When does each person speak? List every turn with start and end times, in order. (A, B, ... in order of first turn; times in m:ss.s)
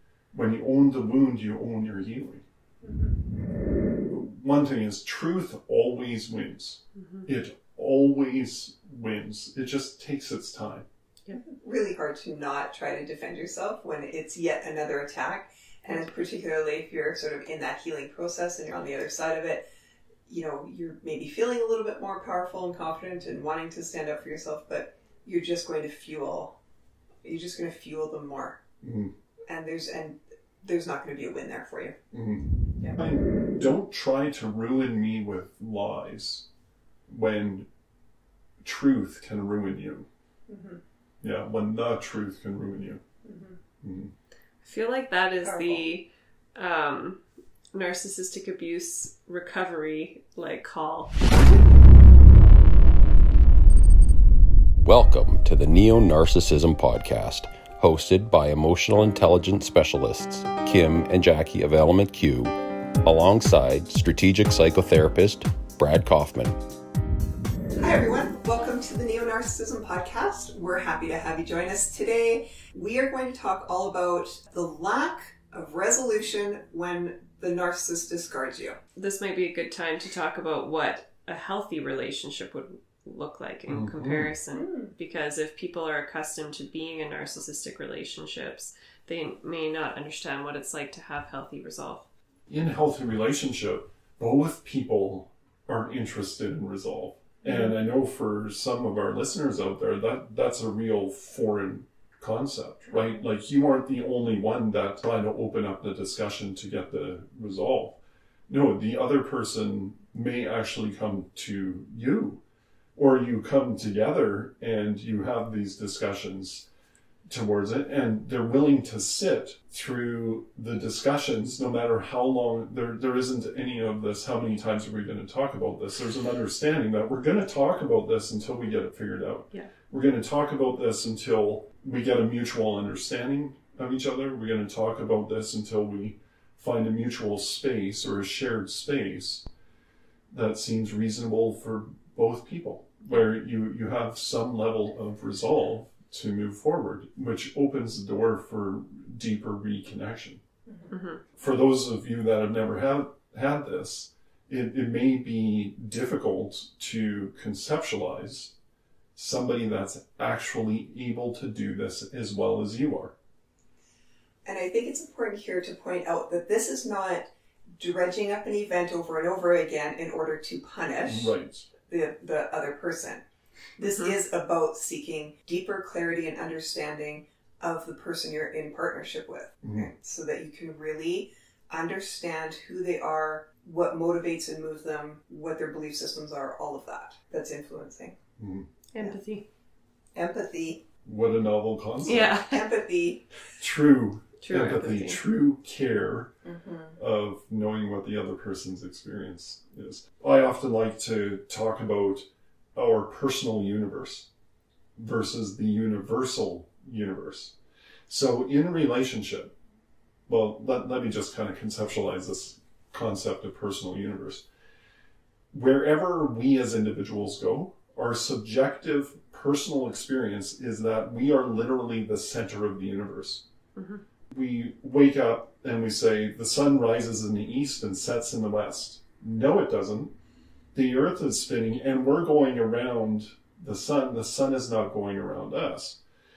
0:00.3-0:02.4 A
0:02.8-0:03.2 B
0:04.1-0:10.8 A
0:07.0-0:07.2 C
0:11.3-0:19.6 B
0:20.3-0:26.5 B
0:27.2-0:28.6 B
0:28.8-0:29.1 A
0:29.5-0:32.0 B
0:32.1-0:36.5 A
0:37.1-0:37.7 A
0:38.6-0:40.1 A
0:40.5-0:40.8 B
0:41.2-0:43.0 A
0:43.2-0:43.6 B
0:43.8-0:44.1 A
0:44.6-0:47.2 C
0:45.4-0:45.8 B
0:47.7-0:51.2 C
0:54.8-1:06.6 D
1:07.8-1:18.8 B
1:19.0-1:32.0 C
1:23.7-1:24.3 A
1:24.5-1:24.9 B
1:32.5-1:52.4 A
1:37.4-1:37.7 C
1:53.0-1:56.6 A
1:57.3-2:19.4 A
2:20.3-2:30.4 A
2:30.7-2:30.9 B
2:30.9-2:31.2 C
2:31.4-2:38.5 A
2:39.1-2:43.1 A
2:44.4-2:51.3 B
2:51.0-2:51.7 A
2:51.8-2:53.2 B
2:53.8-3:08.2 B
2:53.8-2:54.1 C
2:59.6-2:59.9 A
3:08.4-3:08.7 A
3:08.9-3:09.4 C
3:10.1-3:10.8 B
3:11.0-3:12.3 A
3:12.0-3:13.2 B
3:12.0-3:12.6 C
3:13.6-3:16.3 A
3:14.4-3:15.2 C
3:16.4-3:17.0 B
3:17.0-3:24.3 A
3:25.0-3:27.6 A
3:28.1-3:29.5 A
3:30.3-3:34.4 A
3:35.5-3:43.4 A
3:43.8-3:44.0 C
3:44.3-3:50.1 A
3:50.7-3:56.0 A